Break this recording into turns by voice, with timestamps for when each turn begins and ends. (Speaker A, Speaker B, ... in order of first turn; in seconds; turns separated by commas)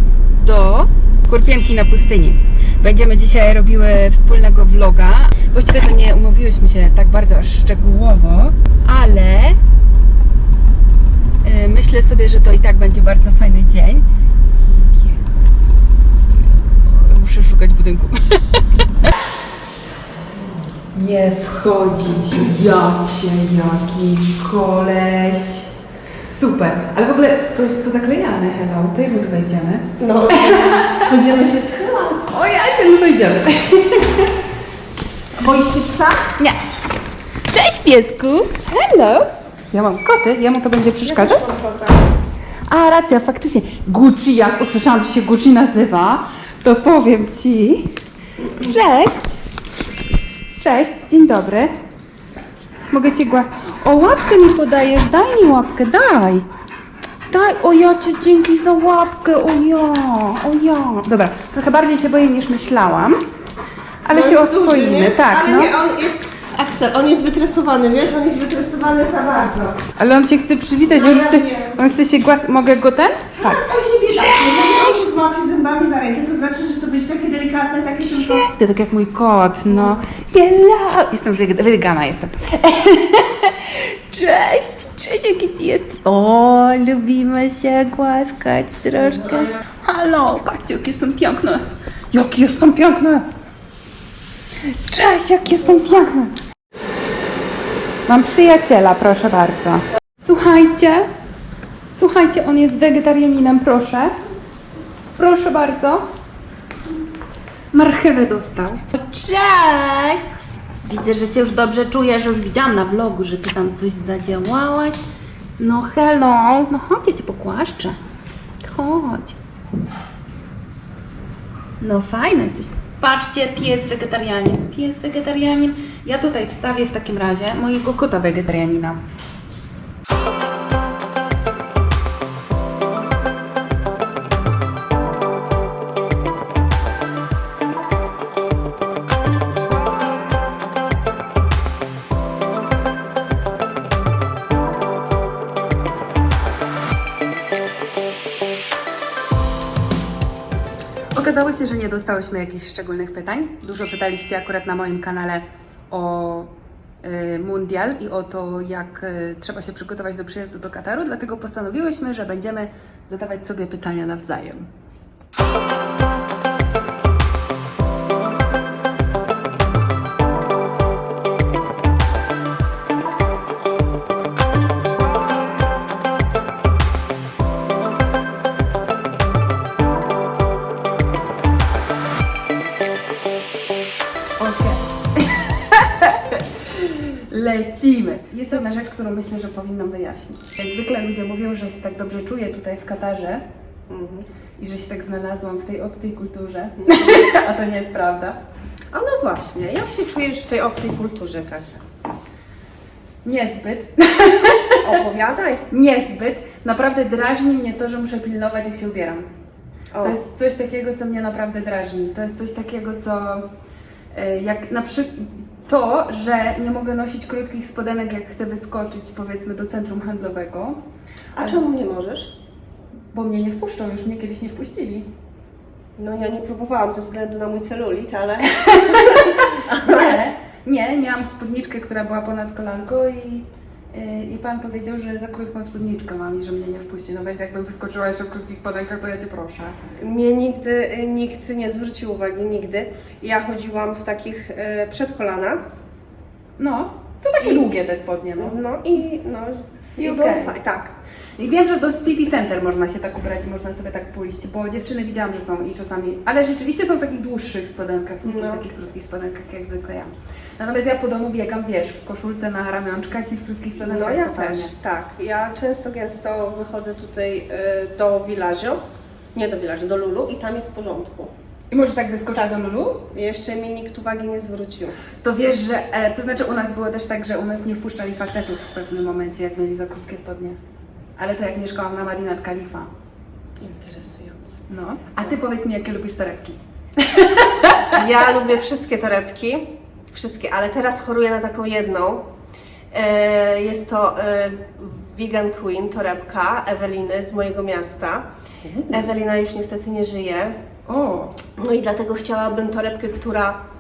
Speaker A: 0.4-9.6, Speaker A: 11.4-14.1, Speaker A: 14.6-15.3, Speaker A: 16.8-18.9, Speaker A: 20.9-31.1, Speaker B: 30.0-32.4, Speaker A: 32.3-34.3, Speaker B: 35.4-36.3, Speaker A: 37.5-41.5, Speaker B: 41.0-42.1, Speaker A: 42.7-47.9, Speaker A: 48.6-49.4, Speaker A: 50.6-51.7, Speaker A: 52.9-56.5, Speaker A: 57.3-63.2, Speaker A: 64.0-65.7, Speaker B: 64.1-69.8, Speaker A: 70.0-74.9, Speaker B: 70.9-71.8, Speaker B: 73.4-78.5, Speaker A: 78.0-93.3, Speaker A: 94.6-96.4, Speaker A: 98.1-101.1, Speaker A: 101.9-104.1, Speaker A: 105.2-106.1, Speaker A: 107.7-115.0, Speaker A: 115.6-118.0, Speaker A: 118.6-119.4, Speaker A: 121.8-129.0, Speaker A: 151.2-164.7, Speaker A: 184.4-193.4, Speaker B: 193.9-194.3, Speaker A: 194.6-198.4, Speaker B: 196.8-197.3, Speaker B: 198.9-201.8, Speaker A: 203.2-204.9, Speaker B: 204.8-205.7, Speaker A: 205.7-209.3, Speaker B: 209.9-210.2, Speaker A: 210.0-213.5, Speaker A: 214.1-220.8, Speaker A: 221.3-221.6, Speaker B: 221.4-222.4, Speaker A: 223.1-225.1, Speaker B: 226.0-230.2, Speaker A: 228.5-239.8, Speaker B: 240.0-245.7, Speaker A: 246.6-248.6, Speaker B: 248.4-251.0, Speaker A: 250.0-250.6, Speaker A: 251.4-264.8, Speaker B: 258.2-258.7, Speaker B: 263.8-268.8, Speaker B: 269.3-271.3, Speaker A: 271.7-273.1, Speaker B: 272.3-275.0, Speaker A: 275.2-280.6, Speaker A: 281.2-282.9, Speaker B: 283.6-284.6, Speaker A: 284.7-288.0, Speaker B: 287.9-292.3, Speaker B: 292.9-300.6, Speaker A: 300.9-301.4, Speaker B: 301.6-303.6